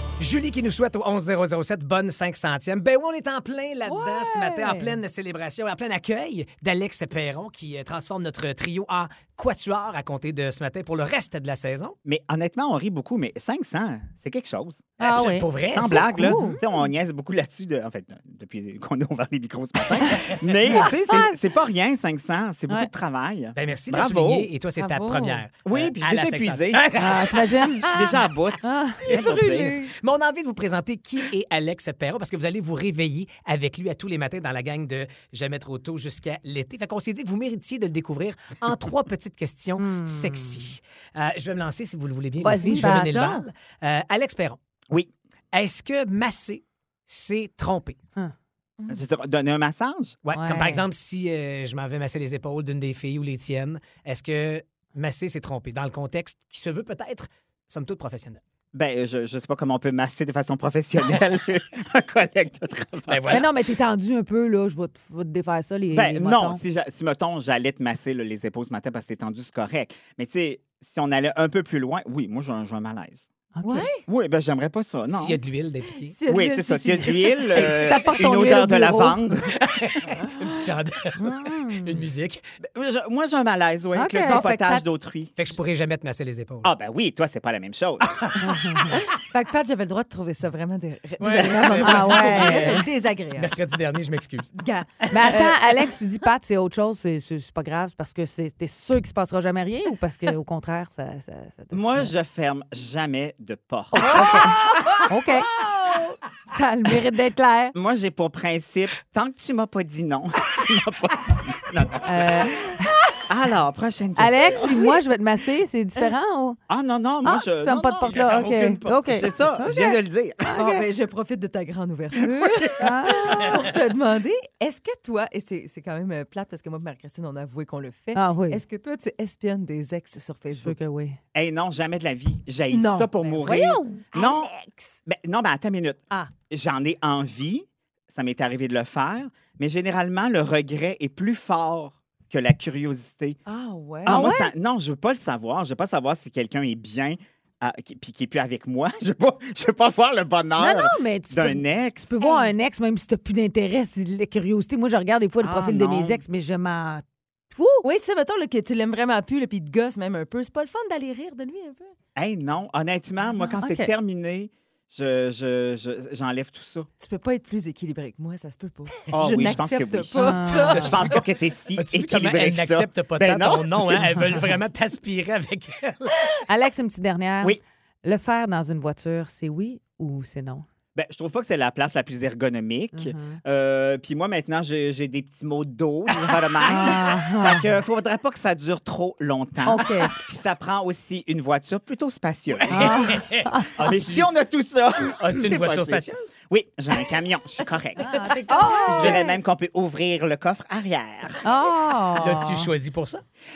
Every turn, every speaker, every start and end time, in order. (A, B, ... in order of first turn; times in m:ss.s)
0:00.2-0:12.0 A
0:03.8-0:05.0 B
0:12.0-0:15.2 C
0:15.0-0:16.6 B
0:15.0-0:16.3 A
0:15.7-0:24.5 C
0:16.1-0:16.6 D
0:20.7-0:21.4 B
0:23.5-0:27.7 A
0:24.8-0:25.4 D
0:25.6-0:26.8 C
0:26.9-0:28.1 B
0:27.8-0:29.8 C
0:28.6-0:29.2 B
0:29.0-0:44.6 A
0:29.1-0:29.9 D
0:39.8-0:40.6 B
0:42.4-0:43.4 B
0:42.5-0:43.4 D
0:45.5-0:48.0 A
0:48.9-0:50.2 C
0:50.2-0:58.4 A
0:50.3-0:50.8 B
0:58.7-1:03.4 C
1:03.1-1:03.5 A
1:03.3-1:06.6 B
1:05.9-1:13.2 C
1:13.6-1:13.9 B
1:13.6-1:14.0 D
1:14.0-1:15.4 C
1:15.1-1:16.1 A
1:16.0-1:17.8 D
1:16.3-1:19.5 C
1:17.5-1:19.2 B
1:19.5-1:22.4 A
1:21.2-1:22.0 B
1:22.7-1:25.3 C
1:23.9-1:24.4 B
1:24.2-1:24.8 D
1:25.4-1:26.7 A
1:26.6-1:28.3 C
1:28.1-1:28.4 A
1:28.4-1:29.0 B
1:29.0-1:33.5 D
1:31.2-1:34.5 A
1:31.8-1:32.8 B
1:34.5-1:35.5 D
1:35.0-1:35.5 A
1:35.1-1:42.1 B
1:41.7-1:45.0 C
1:43.9-1:45.5 B
1:45.6-1:46.0 D
1:46.5-1:47.7 B
1:47.7-1:52.5 C
1:52.0-1:53.0 B
1:53.2-1:54.7 C
1:54.2-1:56.6 B
1:56.7-2:00.5 C
1:57.2-2:00.8 B
1:58.0-1:58.8 A
2:00.5-2:10.8 D
2:02.7-2:03.6 B
2:08.1-2:08.6 B
2:10.5-2:11.2 B
2:11.3-2:14.5 C
2:12.7-2:13.4 D
2:13.4-2:14.1 B
2:14.2-2:14.9 D
2:15.0-2:23.4 C
2:23.5-2:24.3 D
2:24.0-2:24.5 B
2:24.0-2:32.2 C
2:30.6-2:37.8 B
2:35.4-2:36.2 C
2:37.8-2:41.9 D
2:42.2-2:46.9 C
2:43.5-2:43.9 B
2:47.0-2:51.2 D
2:49.1-2:54.5 C
2:50.1-2:51.0 B
2:51.8-2:56.3 A
2:56.5-3:00.6 B
3:00.9-3:13.2 C
3:02.9-3:03.4 B
3:06.2-3:06.7 A
3:06.6-3:07.6 B
3:09.6-3:10.1 B
3:12.5-3:14.3 A
3:12.7-3:13.7 B
3:13.8-3:18.0 C
3:15.2-3:16.3 A
3:18.0-3:19.3 B
3:18.5-3:19.2 D
3:18.9-3:21.4 C
3:21.4-3:22.7 B
3:22.2-3:23.2 A